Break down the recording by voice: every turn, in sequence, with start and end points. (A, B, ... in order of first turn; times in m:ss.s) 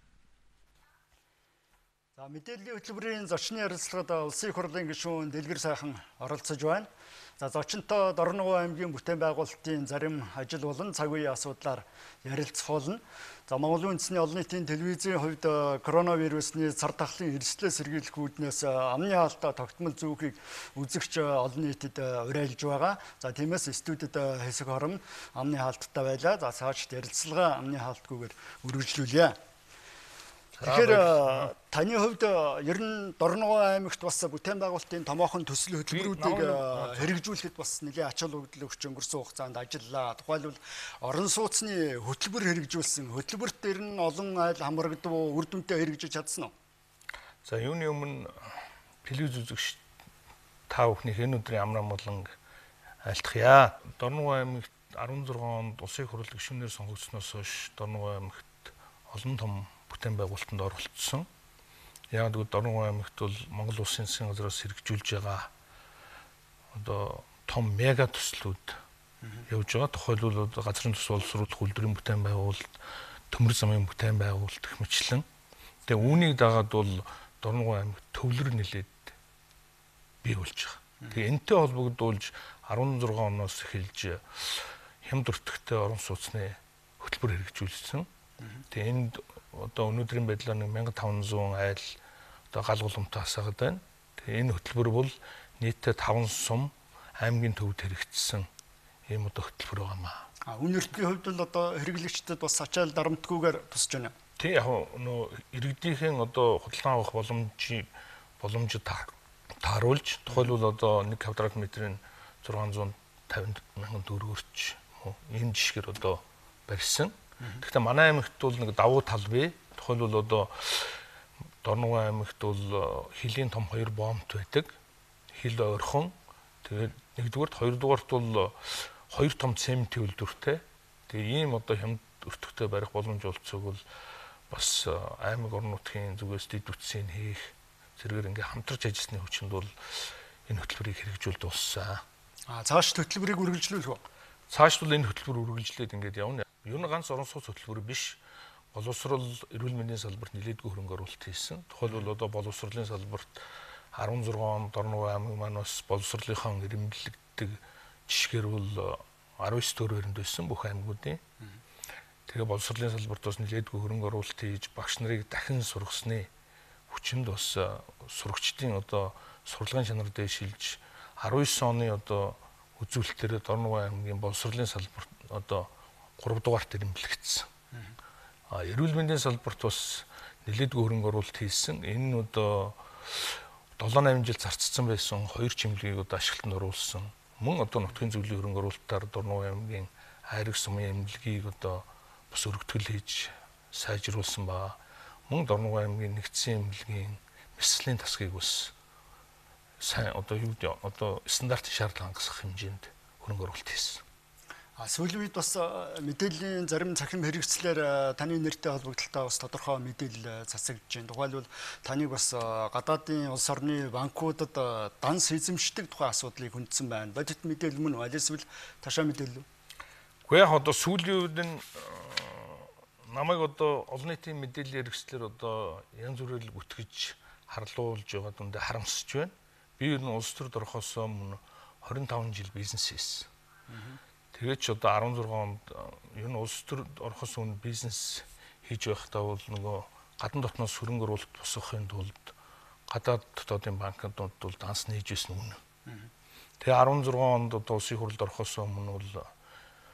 0:02.2-0:29.4 A
0:30.6-0:31.5 B
0:30.6-0:46.5 A
0:35.9-0:37.2 B
0:47.4-0:48.5 B
0:49.0-0:49.8 B
0:50.7-0:52.4 B
0:53.0-1:01.3 B
1:02.1-1:05.5 B
1:06.7-1:08.8 B
1:09.5-1:12.8 B
1:13.3-1:15.2 B
1:15.9-1:19.1 B
1:20.2-1:28.1 B
1:28.7-1:32.0 B
1:32.5-1:38.5 B
1:39.1-1:40.3 B
1:40.5-1:44.1 A
1:44.4-1:47.9 B
1:48.4-2:01.0 B
2:01.6-2:04.7 B
2:05.3-2:13.8 B
2:14.5-2:22.0 B
2:22.5-2:24.0 A
2:24.5-2:28.2 B
2:28.7-2:33.4 B
2:33.9-2:41.2 B
2:42.3-2:46.3 B
2:46.9-2:57.5 B
2:58.5-3:18.7 B
3:19.8-3:24.0 B
3:24.8-3:39.5 A
3:40.3-3:53.3 B
3:54.3-4:02.3 B
4:02.9-4:05.6 B
4:06.6-4:09.3 B